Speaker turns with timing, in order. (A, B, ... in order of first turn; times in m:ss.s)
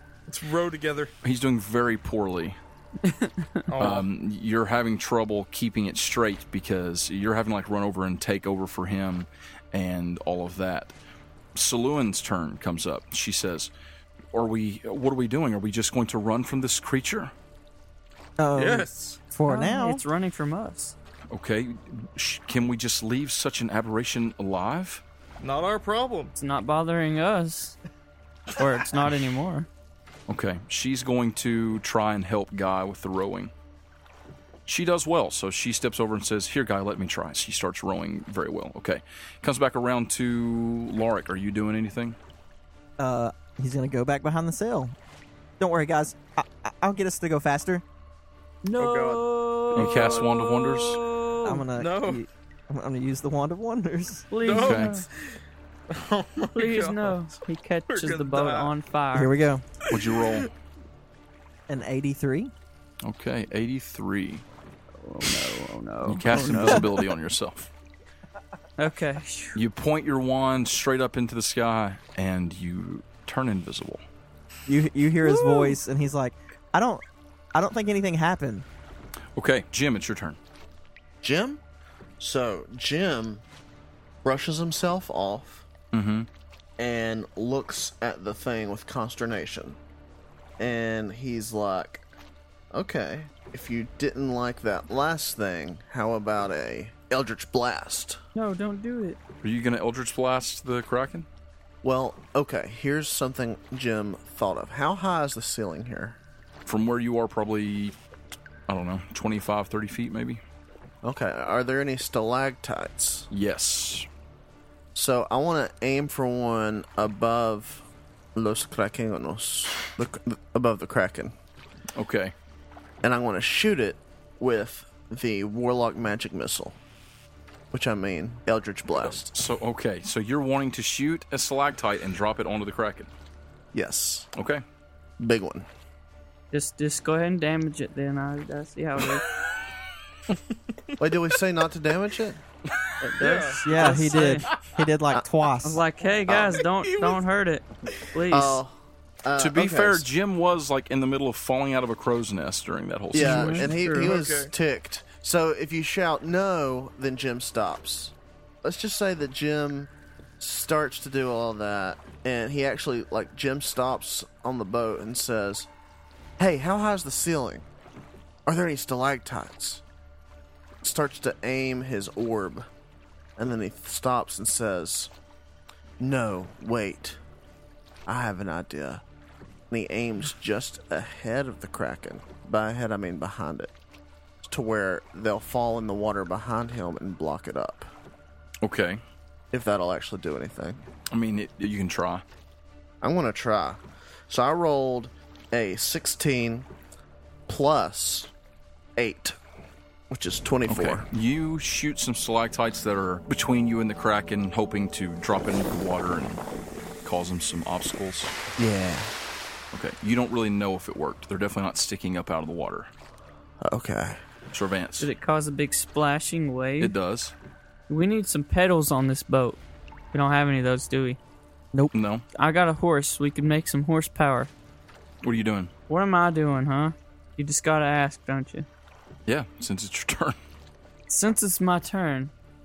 0:00.3-0:01.1 A
0:01.2-0:02.6 B
0:03.0-0:03.7 C
0:03.7-0:04.1 A
0:03.8-0:10.9 B
0:11.5-0:13.7 B
0:14.3-0:17.3 B
0:18.4-0:20.0 D
0:18.5-0:19.2 A
0:19.5-0:20.9 C
0:21.3-0:25.0 B
0:25.4-0:26.3 A
0:26.4-0:27.8 C
0:28.5-0:29.7 C
0:30.3-0:33.5 B
0:34.7-0:42.2 B
0:43.0-0:44.9 D
0:45.6-0:47.8 D
0:48.6-0:51.6 C
0:48.8-0:50.3 A
0:49.7-0:51.0 B
0:51.4-0:54.3 D
0:51.7-0:52.2 A
0:54.3-0:55.1 C
0:54.4-0:55.4 A
0:54.5-0:55.0 B
0:55.9-0:57.3 A
0:56.5-0:59.3 C
0:57.9-0:58.7 A
0:59.1-0:59.6 D
0:59.8-1:00.5 A
0:59.9-1:00.5 B
1:01.7-1:02.5 D
1:03.0-1:04.4 B
1:05.0-1:06.8 C
1:06.0-1:07.7 B
1:06.3-1:06.8 D
1:08.8-1:09.6 C
1:09.5-1:14.0 B
1:14.6-1:18.6 D
1:15.2-1:15.7 C
1:19.4-1:20.4 B
1:21.2-1:21.6 E
1:22.2-1:23.4 E
1:24.2-1:25.6 E
1:25.9-1:26.3 B
1:26.8-1:29.8 E
1:30.6-1:32.0 E
1:32.7-1:38.2 E
1:38.3-1:39.2 C
1:39.4-1:41.3 B
1:41.8-1:46.2 E
1:46.6-1:48.0 B
1:48.7-1:50.4 B
1:51.0-1:53.3 E
1:53.3-1:54.1 B
1:54.9-2:01.3 E
2:01.9-2:02.3 B
2:03.0-2:06.8 E
2:07.7-2:09.3 E
2:08.9-2:13.1 B
2:13.7-2:14.3 E
2:14.3-2:14.6 B
2:15.2-2:15.7 E
2:16.5-2:19.2 C
2:20.3-2:20.9 A
2:21.0-2:22.4 E
2:23.0-2:24.5 C
2:23.2-2:24.8 A
2:23.6-2:25.8 D
2:25.6-2:28.6 C
2:26.3-2:26.6 E
2:26.7-2:27.2 A
2:28.3-2:30.1 E
2:29.4-2:33.7 B
2:33.1-2:45.7 E
2:33.2-2:34.1 C
2:33.6-2:34.5 A
2:46.4-2:47.7 E
2:48.4-2:49.8 E
2:50.8-2:52.6 E
2:53.4-2:55.1 E
2:56.0-2:57.2 E
2:58.0-2:59.0 E
2:59.7-3:03.7 E
3:04.4-3:07.9 E
3:08.6-3:09.0 B
3:09.5-3:10.8 E
3:11.1-3:12.2 B
3:13.0-3:16.7 E
3:17.5-3:18.3 E
3:19.0-3:19.4 E
3:20.1-3:21.0 E
3:20.7-3:26.4 B
3:27.0-3:28.3 B
3:28.6-3:29.1 E
3:29.7-3:32.9 B
3:33.6-3:34.2 E
3:34.5-3:35.1 B
3:35.0-3:36.9 C
3:36.8-3:37.3 B
3:37.9-3:39.6 C
3:40.1-3:41.2 C
3:41.9-3:42.2 B
3:42.4-3:44.5 C
3:45.2-3:45.7 B
3:45.9-3:48.7 C
3:49.2-3:50.4 B
3:51.1-3:52.3 C